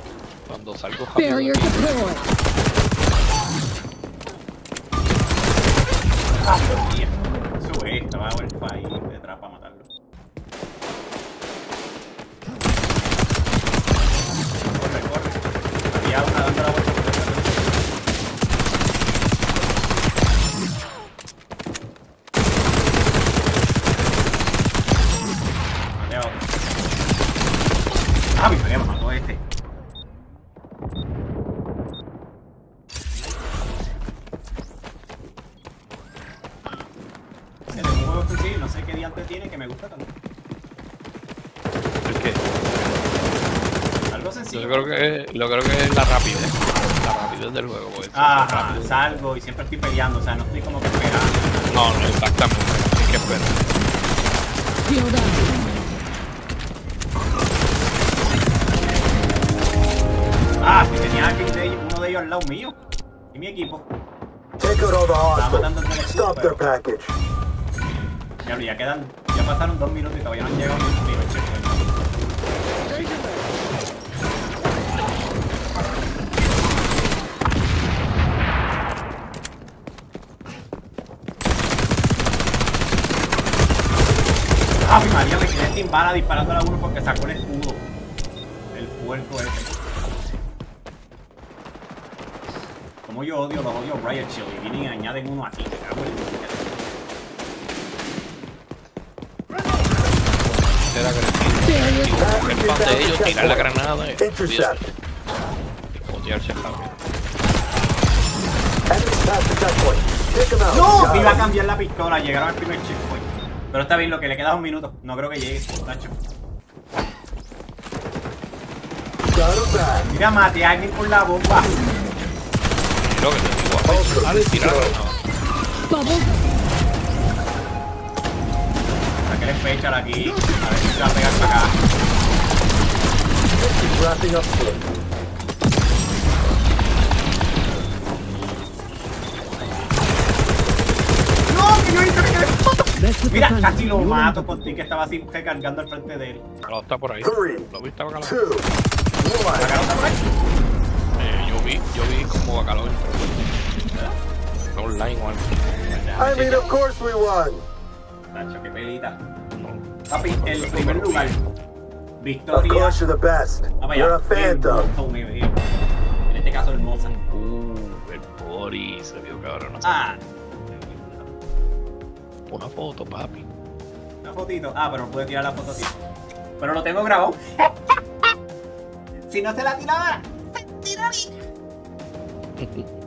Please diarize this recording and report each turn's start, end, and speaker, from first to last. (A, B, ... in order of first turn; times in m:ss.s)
0:00.5-0:02.2 A
0:06.4-0:09.9 B
0:14.7-0:17.8 B
0:26.0-0:26.6 B
0:28.4-0:29.4 B
0:37.7-0:40.1 B
0:42.1-0:42.7 A
0:44.1-0:45.0 B
0:44.5-0:49.2 A
0:48.1-0:52.0 B
0:51.7-0:53.6 A
1:00.6-1:02.8 B
1:03.3-1:03.9 B
1:04.6-1:07.1 C
1:05.4-1:06.6 B
1:08.4-1:12.0 B
1:24.8-1:27.9 B
1:28.7-1:29.7 B
1:33.1-1:36.8 B
1:40.3-1:44.9 A
1:42.2-1:44.8 C
1:46.1-1:47.0 A
1:48.9-1:51.5 C
1:50.7-1:56.2 B
1:59.3-2:00.1 C
2:00.0-2:01.7 B
2:03.0-2:05.2 A
2:03.8-2:05.0 C
2:09.2-2:11.8 B
2:13.6-2:15.0 C
2:21.5-2:26.4 B
2:26.6-2:28.4 A
2:27.2-2:27.7 C
2:28.2-2:28.7 C
2:29.2-2:29.9 C
2:29.6-2:30.2 B
2:31.2-2:33.5 A
2:34.7-2:36.3 A
2:35.9-2:36.6 B
2:36.2-2:37.6 C
2:38.3-2:39.2 B
2:39.6-2:41.4 A
2:40.1-2:41.4 B
2:42.2-2:43.0 B
2:42.5-2:44.9 C
2:43.8-2:45.6 B
2:46.3-2:47.1 B
2:46.9-2:50.0 A
2:49.8-2:51.3 B
2:52.5-2:53.5 A
2:54.2-2:56.0 B
2:56.6-2:57.9 B
2:59.3-3:01.3 B
3:02.6-3:02.9 A